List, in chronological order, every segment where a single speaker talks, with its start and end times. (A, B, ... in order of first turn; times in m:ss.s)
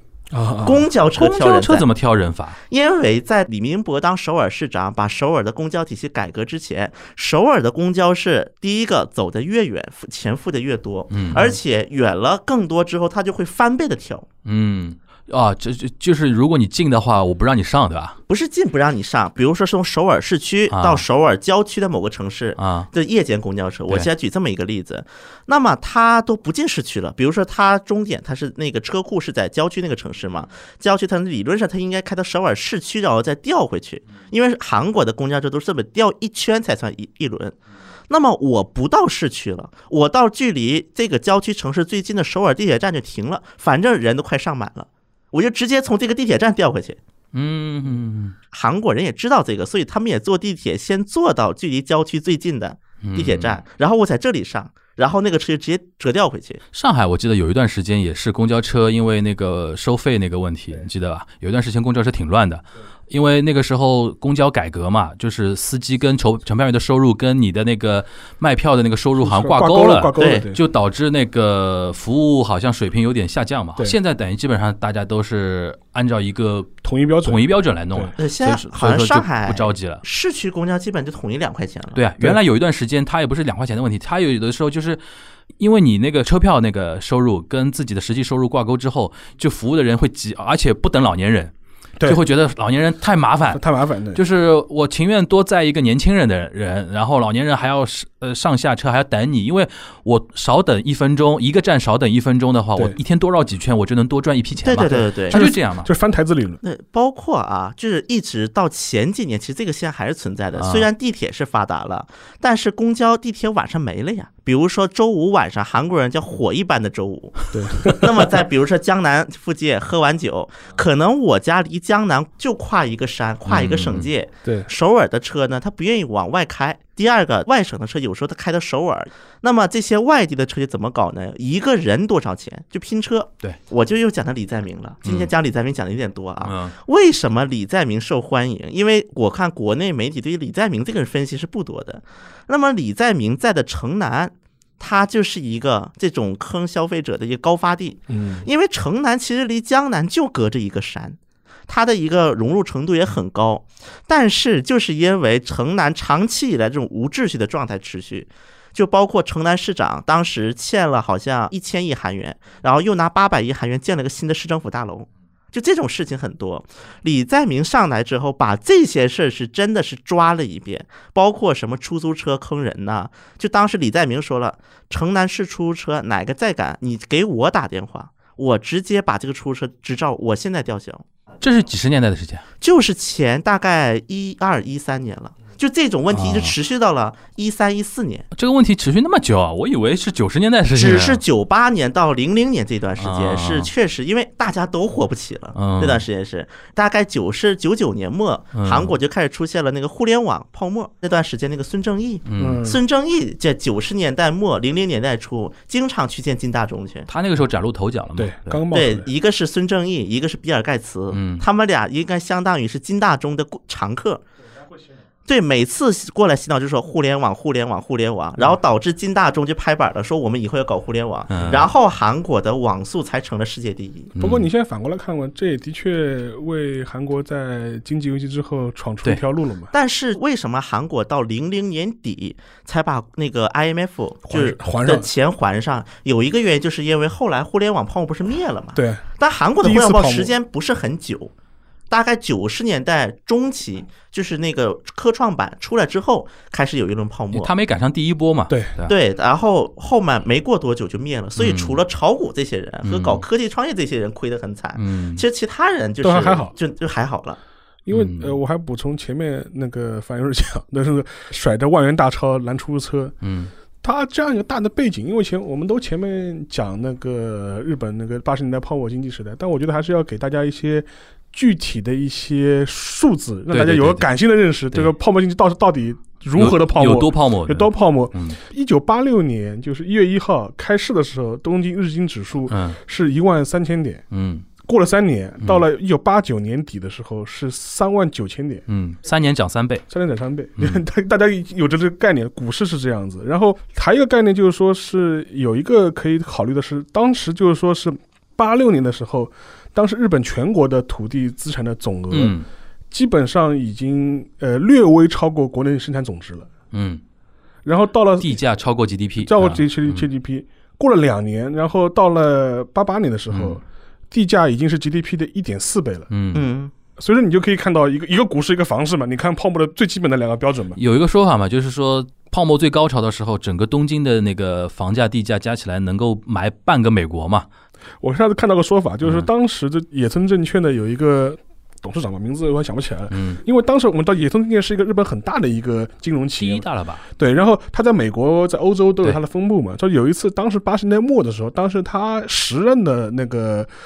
0:00.3-0:00.9 A
0:00.6-0:01.8 B
0:01.2-0:02.6 C
0:02.7-0:14.3 B
0:11.1-0:11.6 C
0:14.4-0:18.2 C
0:18.3-0:37.6 B
0:20.7-0:21.0 C
0:22.6-0:22.9 C
0:38.1-0:47.0 B
0:47.3-0:48.3 C
0:48.5-0:56.6 B
0:53.0-0:53.6 C
0:56.7-1:20.0 C
1:09.2-1:10.6 A
1:10.2-1:10.4 B
1:16.8-1:18.1 A
1:18.2-1:22.0 B
1:21.9-1:25.0 C
1:25.6-1:31.5 C
1:32.0-1:33.6 C
1:33.5-1:34.2 A
1:34.1-1:45.9 C
1:44.6-1:45.4 B
1:44.8-1:46.6 A
1:46.6-2:31.2 B
1:50.6-1:50.9 C
1:57.5-1:58.1 A
2:03.5-2:04.1 C
2:15.0-2:15.3 C
2:16.4-2:16.7 C
2:28.1-2:28.5 A
2:31.7-3:01.0 B
3:01.4-3:02.4 C
3:02.6-3:08.3 B
3:06.1-3:06.5 C
3:08.3-3:11.2 C
3:10.7-3:27.1 B
3:13.0-3:13.7 C
3:15.5-3:16.0 C
3:18.5-3:18.9 C
3:22.2-3:22.6 C
3:22.4-3:22.8 A
3:27.1-3:28.6 C
3:28.2-3:29.1 A
3:28.7-3:34.2 B
3:31.1-3:31.4 C
3:35.2-3:44.1 B
3:41.3-3:41.7 C
3:44.2-3:44.5 C
3:44.2-3:49.7 A
3:49.7-4:01.3 B
3:54.3-3:55.1 A
3:58.7-3:59.0 A
3:59.6-4:00.3 A
4:01.9-4:07.5 B
4:07.3-4:08.9 C
4:08.9-4:17.4 B
4:11.4-4:11.8 C
4:12.8-4:13.2 C
4:14.8-4:15.2 C
4:16.0-4:16.5 A
4:17.8-4:23.1 A
4:17.9-4:18.3 C
4:23.2-4:23.5 C
4:23.8-4:44.0 A
4:33.5-4:34.1 C
4:36.4-4:38.4 C
4:42.5-4:42.8 C
4:44.1-4:44.4 C
4:44.6-4:48.6 A
4:48.7-4:49.8 C
4:49.9-5:02.3 A
5:02.1-5:02.4 C
5:02.9-5:06.5 A
5:06.7-5:07.0 C
5:07.6-5:08.4 A
5:08.2-5:10.0 C
5:09.2-5:16.1 A
5:13.3-5:13.6 C
5:16.1-5:16.4 C
5:16.3-5:16.7 B
5:17.0-5:20.8 A
5:20.8-5:27.4 C
5:28.0-5:43.7 A
5:33.1-5:33.4 C
5:36.4-5:37.0 C